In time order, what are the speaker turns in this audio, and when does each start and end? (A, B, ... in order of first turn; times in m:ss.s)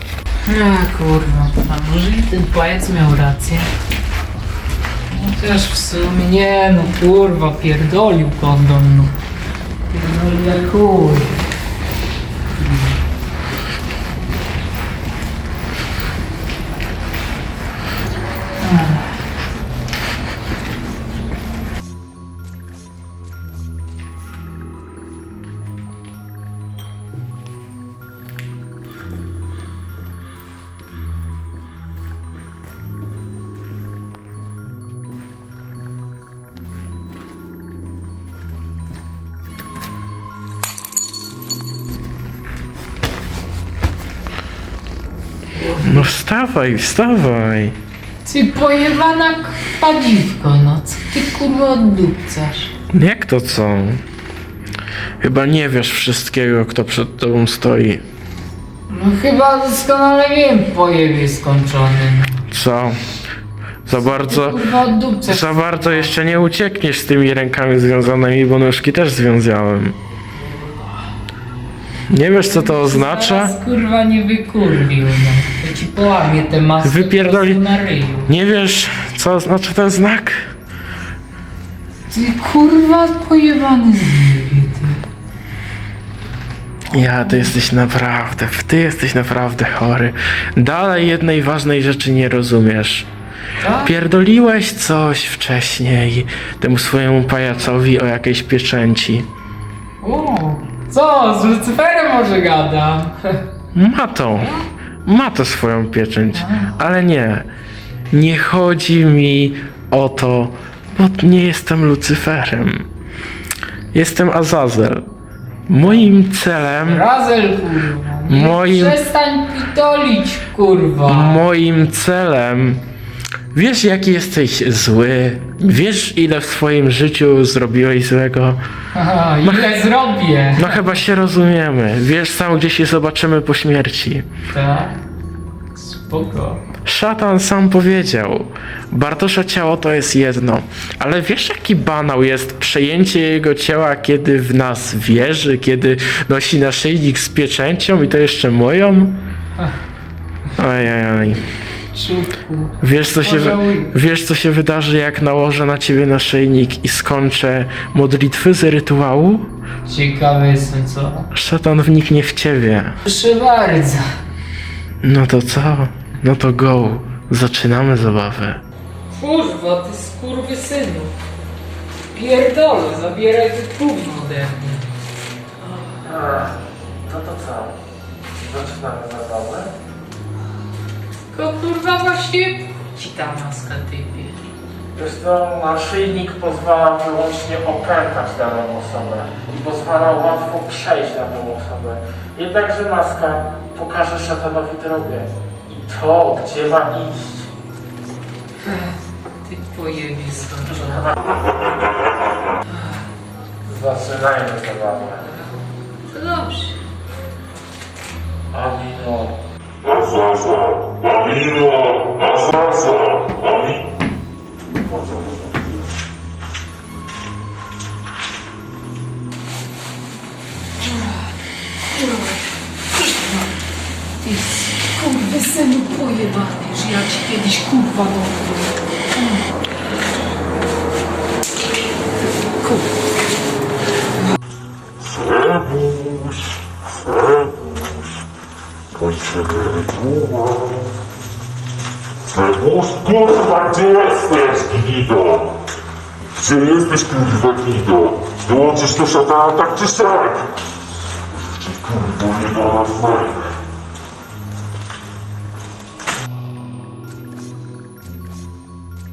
0:00.4-0:03.7 A
0:05.1-0:09.2 A
0:09.9-0:11.4 A
0:12.6-0:12.9 A
0:18.6-0:19.0 A
0:45.6-0:46.1 A
0:45.8-0:47.8 B
0:48.2-0:52.7 A
0:52.9-0:54.0 B
0:55.2-0:58.0 B
0:58.9-1:02.4 A
1:02.5-1:03.0 B
1:03.9-1:04.6 B
1:03.9-1:06.4 A
1:05.2-1:10.0 B
1:12.1-1:13.6 B
1:12.4-1:18.3 A
1:16.8-1:17.6 B
1:18.3-1:20.5 B
1:22.1-1:25.0 A
1:26.9-1:33.1 B
1:27.0-1:27.5 A
1:33.6-1:33.9 A
1:33.8-1:39.3 B
1:40.0-1:43.4 A
1:43.7-1:47.5 B
1:46.4-1:46.7 A
1:48.1-1:52.9 B
1:53.9-1:55.0 B
1:55.7-1:57.1 B
1:55.8-1:56.1 A
1:56.8-2:01.4 A
1:58.3-1:59.0 B
2:01.1-2:02.8 B
2:03.5-2:08.6 B
2:08.9-2:11.0 A
2:09.4-2:09.8 B
2:10.6-2:14.3 B
2:14.5-2:15.0 A
2:15.8-2:16.6 A
2:16.8-2:29.2 B
2:30.6-2:31.4 B
2:31.9-2:33.9 A
2:32.8-2:39.5 B
2:39.8-2:41.3 A
2:41.3-2:43.0 B
2:43.1-2:44.0 A
2:45.0-2:48.6 B
2:49.1-2:51.1 A
2:52.1-2:54.9 A
2:56.0-2:57.8 B
2:58.4-2:59.7 B
3:01.3-3:04.4 A
3:04.9-3:17.5 B
3:18.6-3:21.1 A
3:20.7-3:21.4 B
3:23.6-3:25.3 B
3:26.1-3:26.8 A
3:28.5-3:29.4 B
3:29.9-3:33.8 C
3:32.4-3:32.9 B
3:40.8-3:41.2 A
3:41.9-3:43.6 A
3:44.2-3:49.4 A
3:55.0-3:58.1 C
3:58.9-4:00.8 C
4:02.3-4:05.6 C
4:06.4-4:10.5 C
4:11.6-4:13.5 C